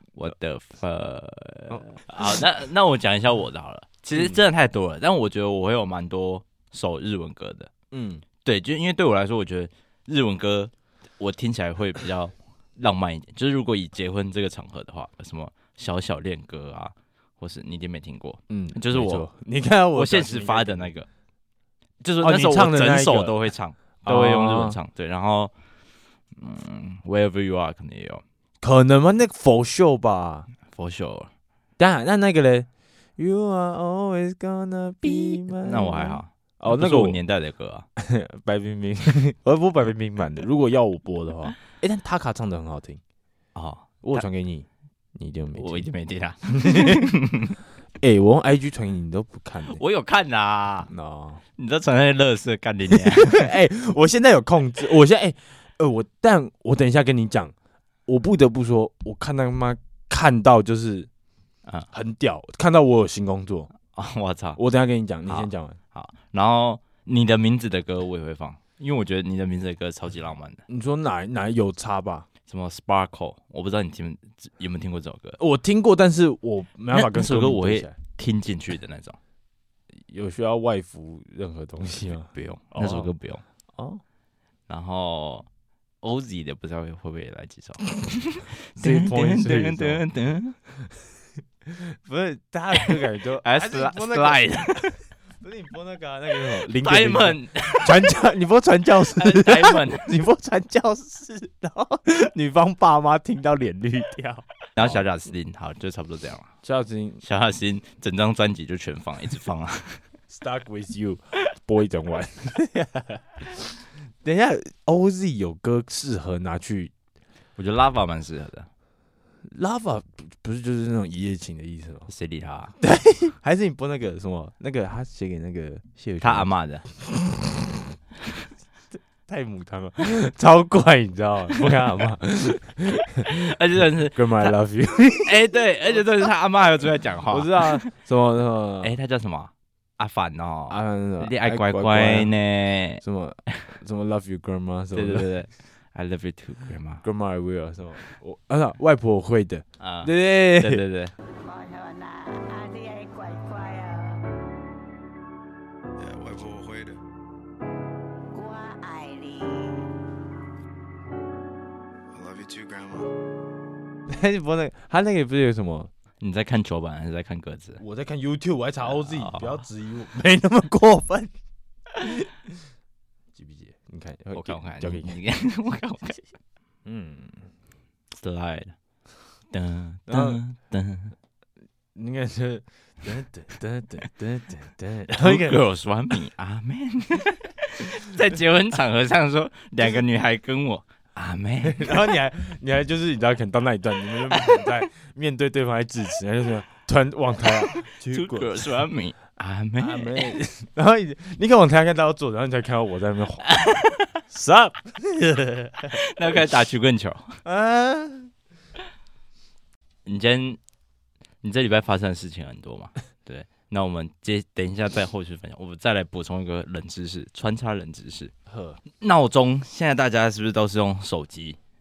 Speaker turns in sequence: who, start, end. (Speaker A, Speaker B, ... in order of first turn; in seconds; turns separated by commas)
Speaker A: 0.1-7.7, Speaker B: 4.1-4.4, Speaker B: 7.9-8.2, Speaker A: 8.4-19.3, Speaker B: 18.5-20.9, Speaker A: 19.9-21.1, Speaker A: 22.0-25.5, Speaker B: 22.2-23.4, Speaker B: 24.0-24.8, Speaker A: 26.4-28.2, Speaker B: 28.6-30.5, Speaker A: 30.7-31.3, Speaker B: 31.8-37.2, Speaker A: 35.0-37.9, Speaker B: 38.0-43.0, Speaker A: 43.5-44.2, Speaker B: 44.0-45.9, Speaker A: 45.5-47.5, Speaker B: 46.5-47.0, Speaker B: 48.0-49.8, Speaker A: 49.6-50.9, Speaker B: 50.9-51.4, Speaker A: 51.6-53.5, Speaker B: 52.9-57.5, Speaker B: 58.1-61.1, Speaker B: 61.9-63.7, Speaker A: 63.9-64.6, Speaker B: 64.5-65.8, Speaker A: 65.3-70.6, Speaker B: 70.7-72.3, Speaker A: 72.5-75.4, Speaker B: 75.4-77.9, Speaker A: 76.9-79.2, Speaker B: 80.1-83.1, Speaker A: 82.3-83.4, Speaker B: 83.7-84.0, Speaker A: 84.7-85.5, Speaker A: 86.0-90.5, Speaker B: 88.8-90.0, Speaker B: 91.6-105.0, Speaker A: 93.4-94.9, Speaker A: 96.6-98.1, Speaker A: 99.1-100.1, Speaker A: 104.8-106.5, Speaker B: 106.6-107.2, Speaker A: 107.2-110.0, Speaker B: 110.3-113.7, Speaker B: 114.2-116.9, Speaker A: 117.6-118.7, Speaker B: 119.5-122.1, Speaker A: 122.1-122.7, Speaker B: 122.8-127.8, Speaker A: 126.2-126.8, Speaker B: 129.3-133.5, Speaker A: 133.2-134.5, Speaker B: 134.1-135.4, Speaker A: 135.2-137.9, Speaker B: 137.3-138.9, Speaker A: 138.8-143.0, Speaker B: 140.7-142.3, Speaker B: 143.0-145.3, Speaker A: 144.9-147.0, Speaker B: 147.0-150.8, Speaker A: 149.8-151.1, Speaker C: 151.4-154.2, Speaker D: 156.0-157.0, Speaker C: 158.3-159.9, Speaker D: 162.1-163.1, Speaker B: 164.1-165.9, Speaker A: 166.2-167.8, Speaker B: 167.8-171.3, Speaker A: 168.8-169.6, Speaker B: 172.0-172.3, Speaker B: 173.3-175.1, Speaker A: 174.3-176.2, Speaker B: 176.8-177.5, Speaker A: 178.2-178.7, Speaker A: 179.5-181.1, Speaker B: 180.1-180.4, Speaker B: 181.9-185.6, Speaker A: 185.2-192.0, Speaker B: 191.6-198.8, Speaker A: 197.9-200.4, Speaker B: 199.8-203.4, Speaker A: 203.5-204.1, Speaker B: 204.3-206.0, Speaker A: 205.9-207.4, Speaker B: 207.4-208.3, Speaker A: 210.1-210.6, Speaker A: 211.4-218.3, Speaker B: 218.5-218.8, Speaker A: 219.0-221.6